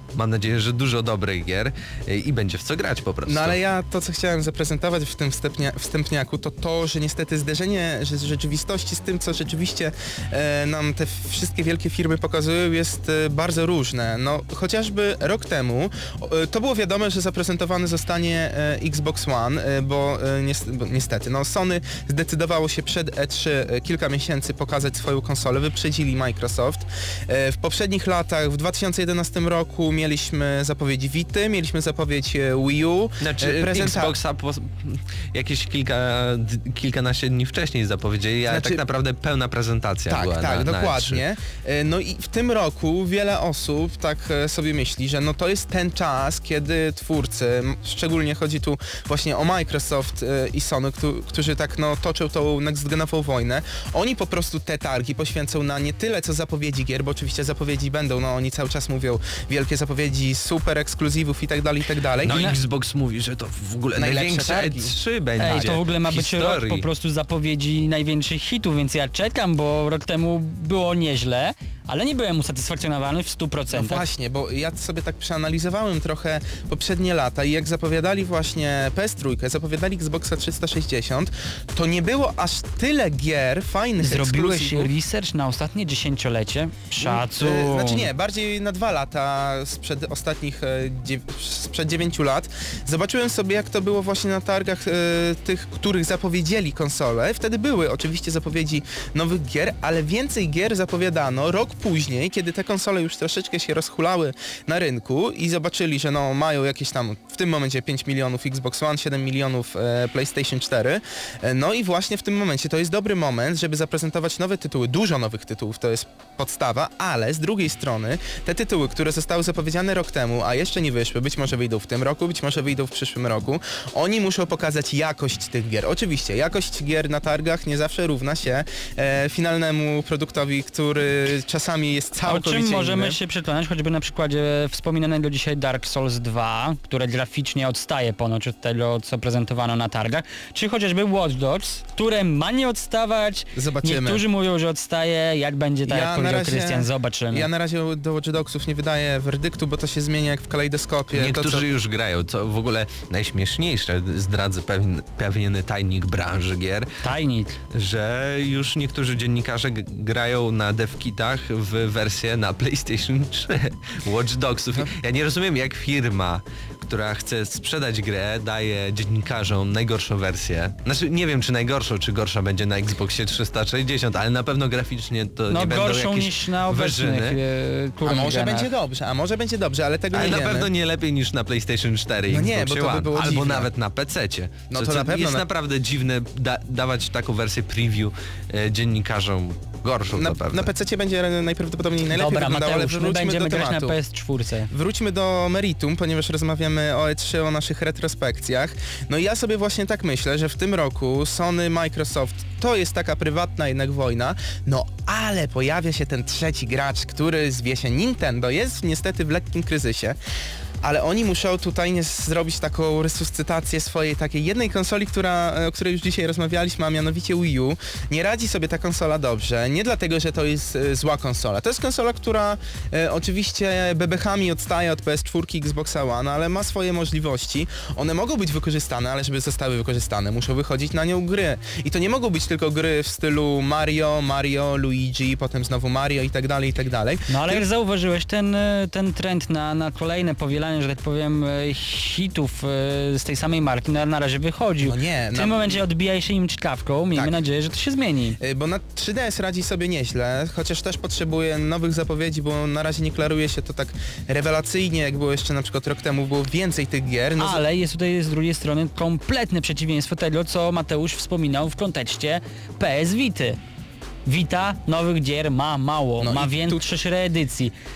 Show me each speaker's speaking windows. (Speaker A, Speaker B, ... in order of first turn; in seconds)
Speaker A: 0.1-3.6, 33.2-41.2, 62.2-66.9, 151.1-156.9, 157.7-177.4, 180.1-190.7
Speaker B: 3.2-34.1, 38.5-38.8, 40.1-62.6, 64.0-64.9, 65.5-65.7, 73.7-84.9, 87.0-133.2, 143.5-144.2, 145.9-151.6, 178.0-180.7, 182.3-183.7, 184.7-185.4, 190.1-194.0, 194.7-210.2, 210.8-237.6, 244.8-245.8, 248.4-257.6, 266.2-266.8
Speaker C: 65.4-74.0, 84.0-88.1, 132.2-147.5, 157.0-157.6, 175.5-178.7, 192.1-194.7, 237.3-248.4, 257.4-263.6, 264.2-267.7